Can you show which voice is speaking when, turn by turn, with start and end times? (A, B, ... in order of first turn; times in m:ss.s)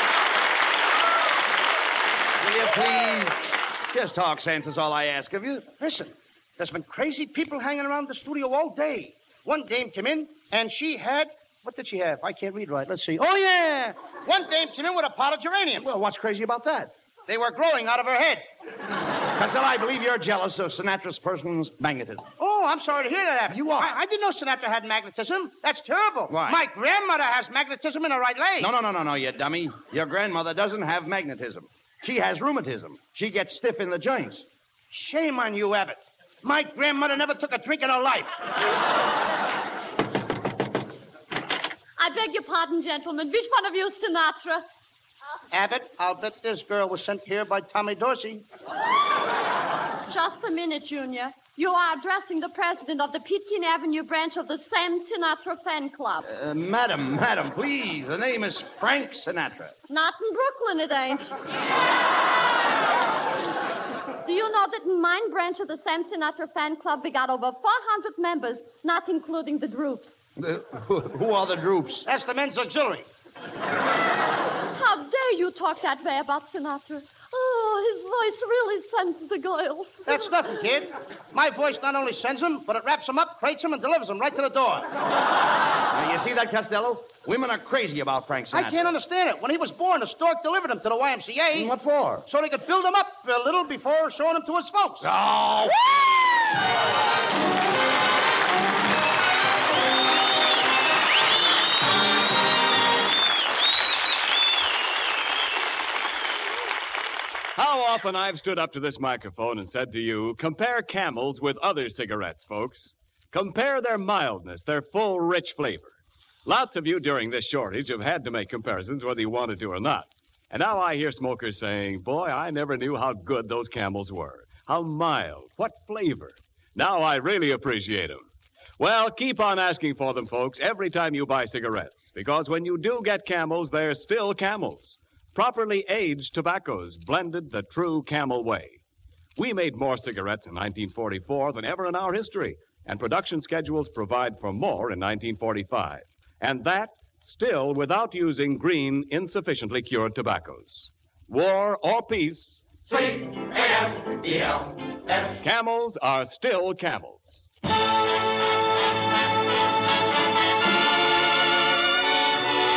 0:02.4-0:05.7 A
0:05.8-0:15.9 B
0:15.8-0:16.9 A
0:17.3-0:18.4 B
0:19.4-0:22.2 A
0:22.4-0:28.7 B
0:23.5-0:23.9 A
0:26.3-0:26.6 A
0:28.6-0:34.4 A
0:34.9-0:38.3 B
0:42.0-0:44.6 C
0:45.5-0:48.4 B
0:50.1-0:56.2 C
0:56.2-0:59.8 A
0:59.9-1:01.3 C
1:04.2-1:10.1 C
1:10.4-1:12.1 A
1:12.0-1:13.1 B
1:14.7-1:20.3 C
1:20.1-1:24.9 B
1:25.9-1:28.8 A
1:28.5-1:31.7 B
1:31.5-1:32.3 A
1:32.3-1:35.1 B
1:35.0-1:36.1 A
1:47.6-1:55.9 D
1:56.4-2:08.3 D
2:08.8-2:18.8 D
2:19.4-2:32.7 D
2:35.1-2:37.4 D